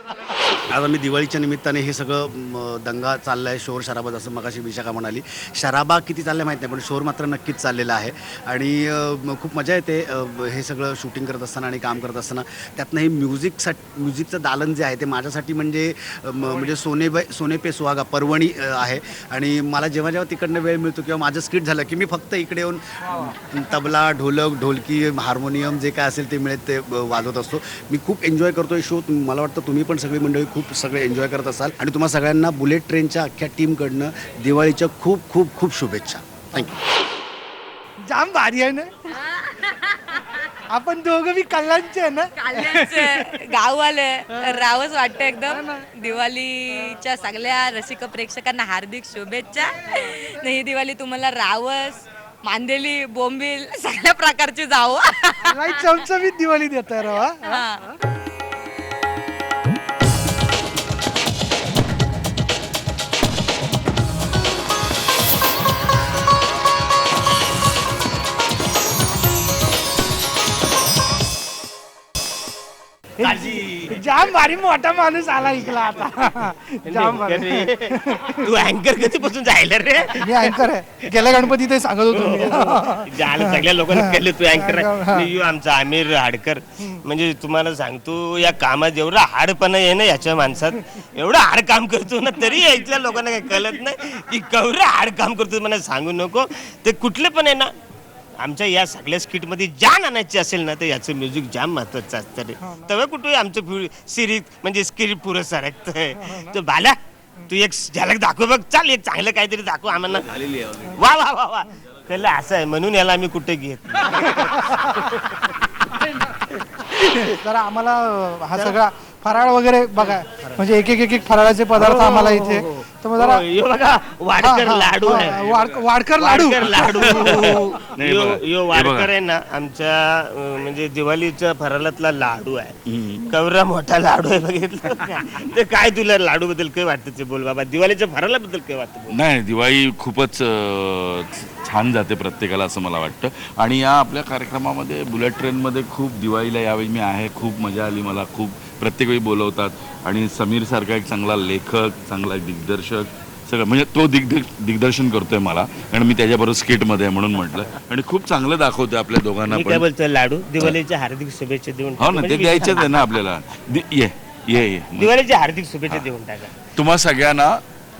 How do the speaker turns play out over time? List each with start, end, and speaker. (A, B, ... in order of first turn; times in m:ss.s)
0:00.7-0:36.7 A
0:38.0-0:38.9 B
0:40.7-0:43.3 B
0:42.4-0:56.0 C
0:44.3-0:44.6 B
0:45.4-0:45.8 B
0:55.4-0:57.8 B
0:57.4-0:57.9 C
1:13.2-1:18.4 B
1:13.2-1:14.0 D
1:16.8-1:21.6 D
1:20.2-1:25.2 B
1:22.1-1:37.7 D
1:38.4-1:55.1 D
1:42.6-1:42.9 B
1:57.4-2:03.4 B
1:58.5-1:58.8 D
1:59.9-2:00.8 D
2:01.7-2:05.5 D
2:04.4-2:07.3 B
2:06.1-2:12.7 D
2:08.0-2:09.1 E
2:12.9-2:13.2 E
2:13.2-2:19.2 D
2:19.1-2:39.8 E
2:39.5-2:43.1 D
2:42.0-2:45.1 E
2:44.9-2:46.5 D
2:46.8-2:47.6 E